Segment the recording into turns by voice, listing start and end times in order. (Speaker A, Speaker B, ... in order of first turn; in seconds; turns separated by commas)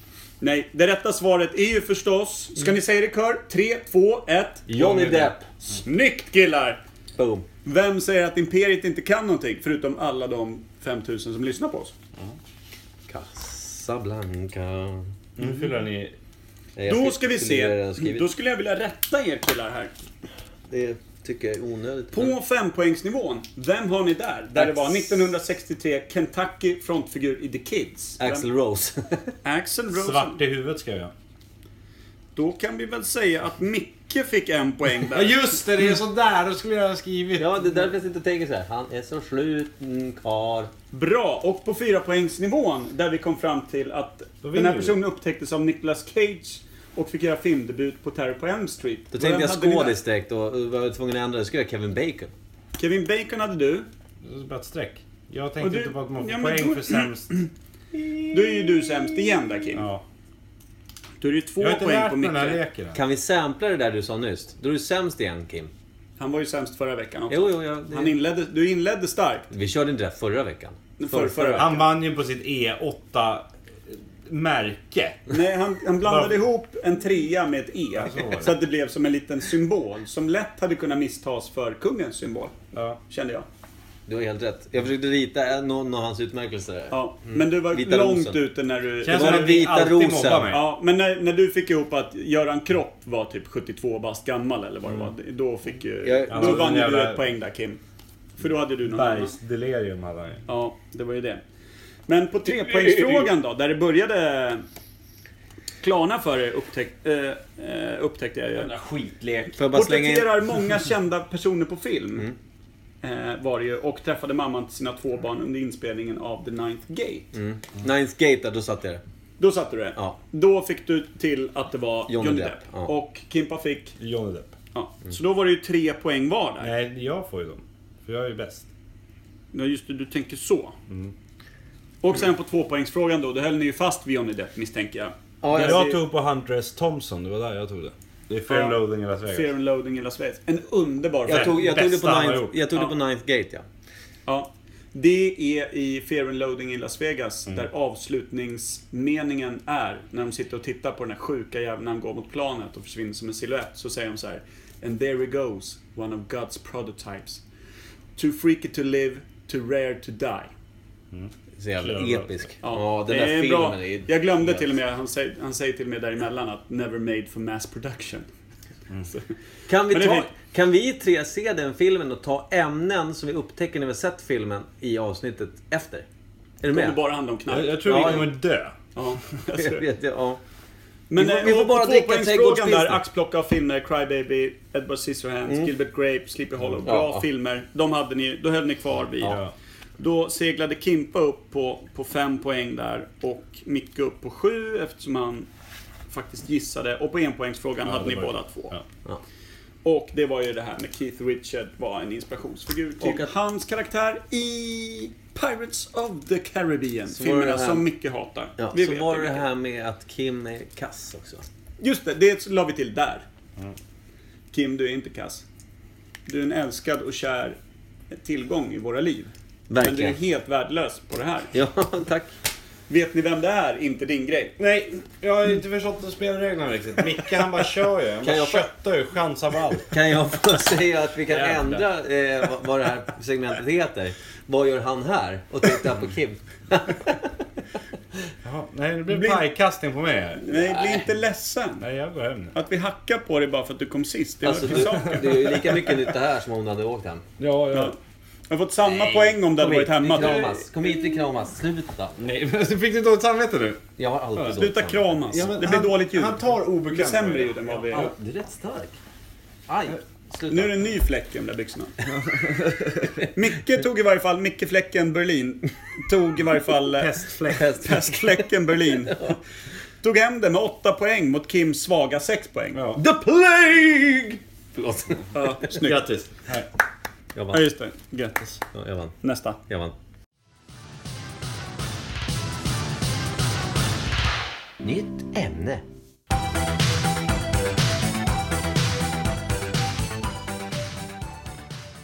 Speaker A: 0.4-6.8, Speaker B: 4.7-5.5, Speaker B: 7.2-7.5, Speaker A: 7.6-11.9, Speaker B: 13.1-15.1, Speaker C: 15.4-16.1, Speaker B: 16.8-18.3, Speaker A: 16.9-19.9, Speaker B: 20.7-22.3, Speaker A: 22.1-28.4, Speaker B: 24.5-25.3, Speaker B: 28.2-29.3, Speaker A: 29.4-30.4, Speaker C: 29.9-31.1, Speaker A: 32.4-35.5, Speaker C: 35.1-37.6, Speaker B: 37.4-40.7, Speaker A: 40.9-50.0, Speaker C: 44.4-45.0, Speaker B: 49.1-52.3, Speaker A: 52.8-53.9, Speaker C: 54.2-57.3, Speaker A: 55.6-57.5, Speaker A: 58.3-59.9, Speaker C: 59.7-60.0, Speaker A: 61.2-62.6, Speaker C: 61.6-63.0, Speaker B: 62.9-65.7, Speaker A: 66.2-69.5, Speaker B: 67.3-68.1, Speaker B: 69.5-71.7, Speaker A: 71.0-71.8, Speaker C: 71.5-75.3, Speaker A: 75.3-82.6, Speaker C: 76.0-76.4, Speaker C: 78.0-78.5, Speaker C: 82.7-83.0, Speaker A: 83.1-83.5, Speaker B: 84.1-88.4, Speaker A: 86.9-89.6, Speaker C: 89.0-90.7, Speaker B: 89.1-90.6, Speaker A: 90.5-97.8, Speaker B: 96.0-96.8, Speaker C: 96.3-97.2, Speaker A: 98.4-99.3, Speaker C: 98.8-100.4, Speaker A: 100.5-101.4, Speaker A: 102.1-104.6, Speaker C: 102.6-103.2, Speaker A: 105.8-108.7, Speaker C: 108.6-109.5, Speaker B: 109.5-110.3, Speaker A: 109.7-112.3, Speaker A: 113.0-117.3, Speaker B: 117.3-119.0, Speaker A: 119.4-124.0, Speaker B: 122.1-122.9, Speaker C: 124.0-124.5, Speaker A: 124.7-126.7, Speaker C: 126.6-128.7, Speaker A: 129.5-130.8, Speaker C: 130.9-131.1, Speaker A: 132.0-136.0, Speaker B: 135.4-135.9, Speaker C: 135.5-139.5, Speaker A: 138.5-141.7, Speaker B: 141.2-143.6, Speaker C: 141.3-142.5, Speaker A: 144.2-157.4, Speaker A: 158.2-160.5, Speaker C: 161.1-162.4, Speaker B: 161.6-164.6, Speaker A: 162.6-168.3, Speaker B: 169.7-176.1, Speaker A: 169.9-170.3, Speaker B: 176.6-177.0, Speaker A: 176.7-178.3, Speaker C: 177.5-178.8, Speaker B: 177.8-178.3, Speaker A: 178.9-179.8, Speaker B: 179.5-180.4, Speaker A: 181.1-189.4, Speaker B: 181.2-183.0, Speaker B: 186.8-187.2, Speaker C: 189.2-189.5, Speaker A: 190.0-195.5, Speaker A: 196.1-198.7, Speaker C: 197.8-198.8, Speaker A: 199.8-209.5, Speaker B: 203.0-203.3, Speaker B: 207.1-207.8, Speaker B: 208.6-211.5, Speaker A: 211.8-213.2, Speaker A: 214.5-215.4, Speaker A: 216.3-217.6, Speaker A: 218.1-221.5, Speaker B: 219.7-220.2, Speaker B: 221.5-222.3, Speaker A: 222.9-224.6, Speaker C: 224.6-229.9, Speaker B: 228.2-228.7, Speaker B: 229.9-237.3, Speaker C: 231.3-231.8, Speaker C: 238.4-240.4, Speaker A: 239.1-239.5, Speaker A: 240.4-241.8, Speaker B: 240.5-241.1, Speaker C: 241.8-242.5, Speaker A: 242.5-245.9, Speaker B: 244.4-247.2, Speaker C: 244.8-245.2, Speaker C: 247.4-247.9, Speaker A: 248.5-250.6, Speaker B: 248.8-252.3, Speaker C: 252.2-254.7, Speaker B: 254.0-255.5, Speaker A: 254.6-258.1, Speaker C: 255.3-258.1, Speaker B: 257.9-259.0, Speaker B: 259.7-260.8, Speaker A: 260.5-261.9, Speaker C: 262.1-263.1, Speaker A: 263.2-269.4, Speaker C: 267.0-267.6, Speaker B: 267.5-268.5, Speaker A: 270.0-272.8, Speaker C: 272.7-273.0, Speaker B: 272.9-275.7, Speaker A: 275.3-276.1, Speaker C: 275.8-276.7, Speaker B: 277.3-277.7, Speaker A: 277.5-278.6, Speaker B: 278.7-279.1, Speaker A: 279.2-279.6, Speaker B: 279.7-279.9, Speaker B: 284.8-285.8